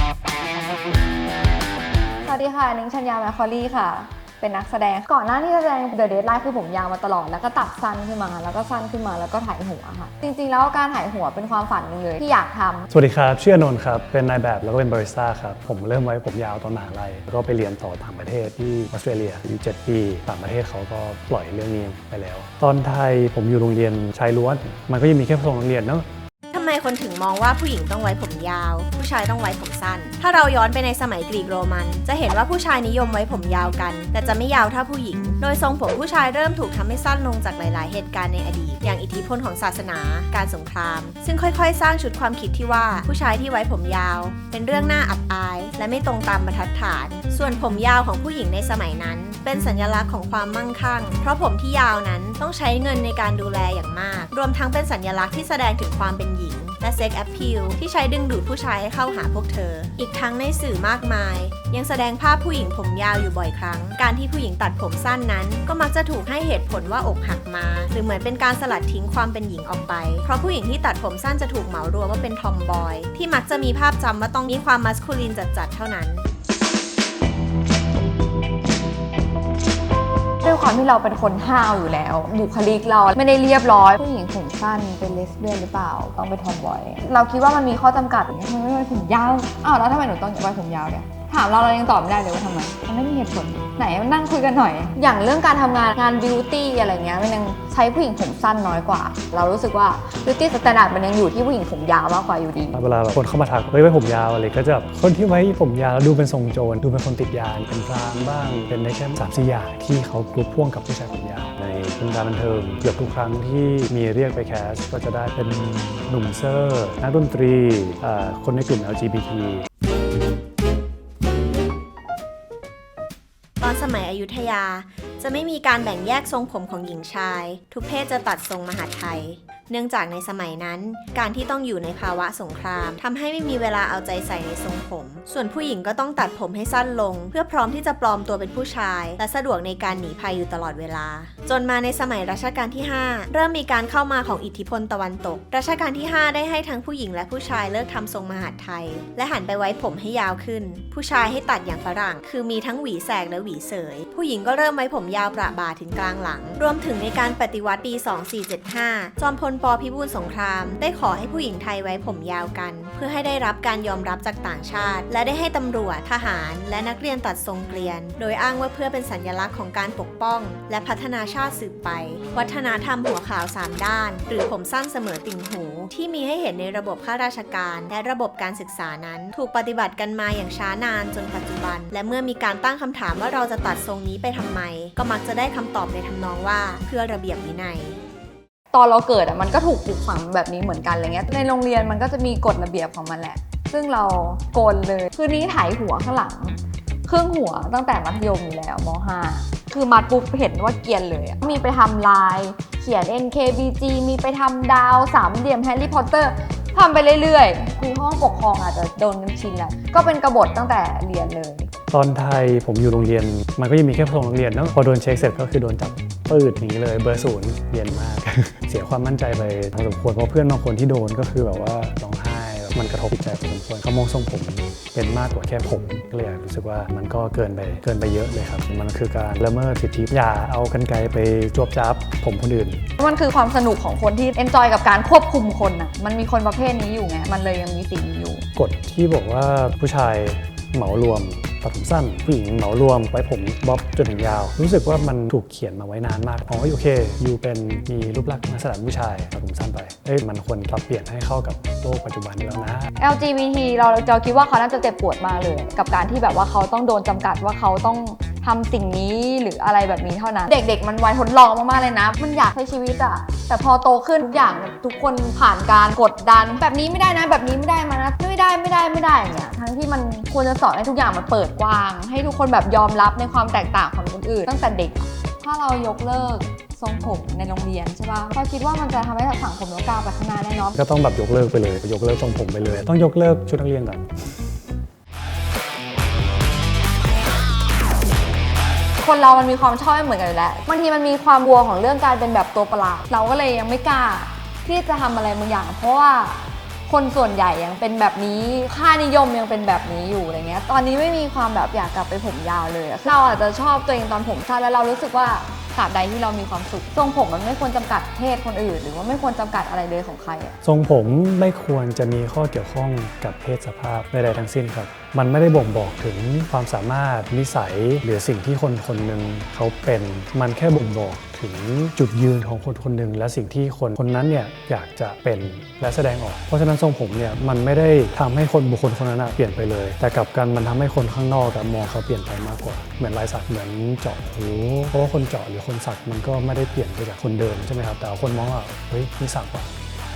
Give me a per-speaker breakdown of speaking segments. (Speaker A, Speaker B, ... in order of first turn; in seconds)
Speaker A: 2.2-12.9, 80.4-102.7, 188.7-211.7, 233.0-238.4, 253.0-280.7, 289.0-310.6
Speaker B: 12.9-26.1, 102.7-119.7, 211.9-232.8, 238.6-252.9, 280.8-284.1, 310.6-339.7
Speaker C: 26.5-76.3, 123.6-188.0